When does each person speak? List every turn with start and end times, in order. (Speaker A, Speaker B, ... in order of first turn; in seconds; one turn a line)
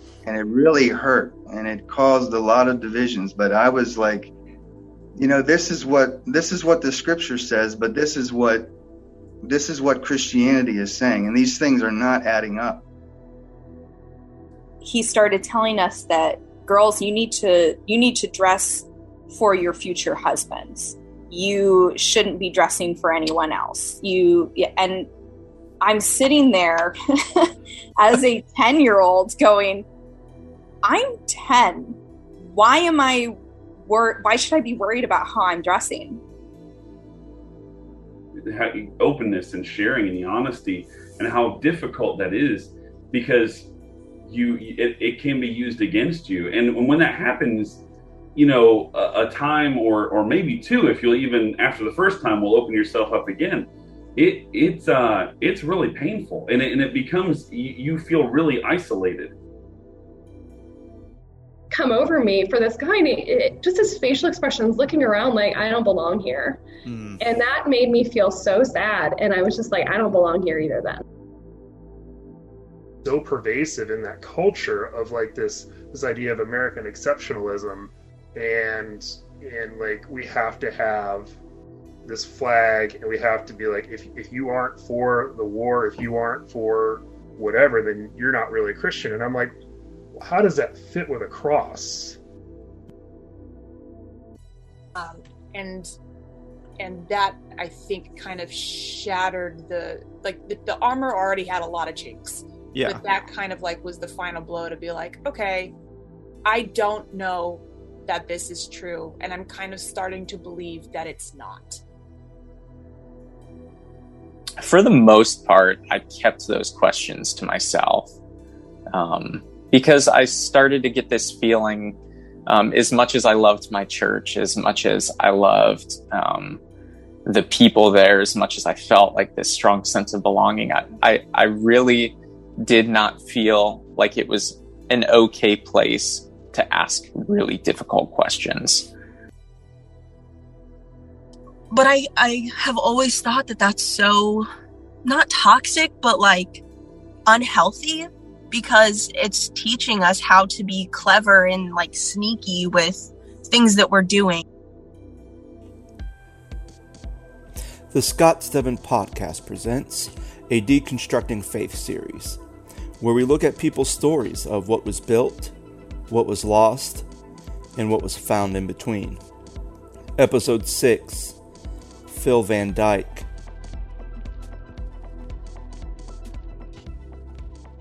Speaker A: 0.2-4.3
Speaker A: 5.2-8.7
Speaker A: 9.4-12.8
Speaker B: 14.8-25.1
Speaker B: 25.8-29.9
Speaker B: 30.8-36.2
Speaker C: 38.4-43.7
Speaker C: 44.2-47.8
Speaker C: 48.3-59.3
Speaker D: 61.7-66.6
Speaker E: 66.8-67.2
Speaker D: 67.2-71.0
Speaker F: 73.0-81.3
Speaker F: 82.0-89.5
Speaker F: 90.2-92.2
Speaker G: 94.9-95.9
Speaker G: 96.8-105.7
Speaker E: 102.7-103.0
Speaker G: 106.4-111.8
Speaker H: 114.6-118.1
Speaker H: 118.9-126.6
Speaker H: 127.2-138.9
Speaker I: 141.7-144.5
Speaker I: 145.0-146.6
Speaker I: 147.2-154.4
Speaker E: 157.9-162.4
Speaker E: 163.0-165.5
Speaker E: 166.1-167.1
Speaker E: 167.8-169.2
Speaker E: 170.2-171.4
Speaker E: 172.1-173.3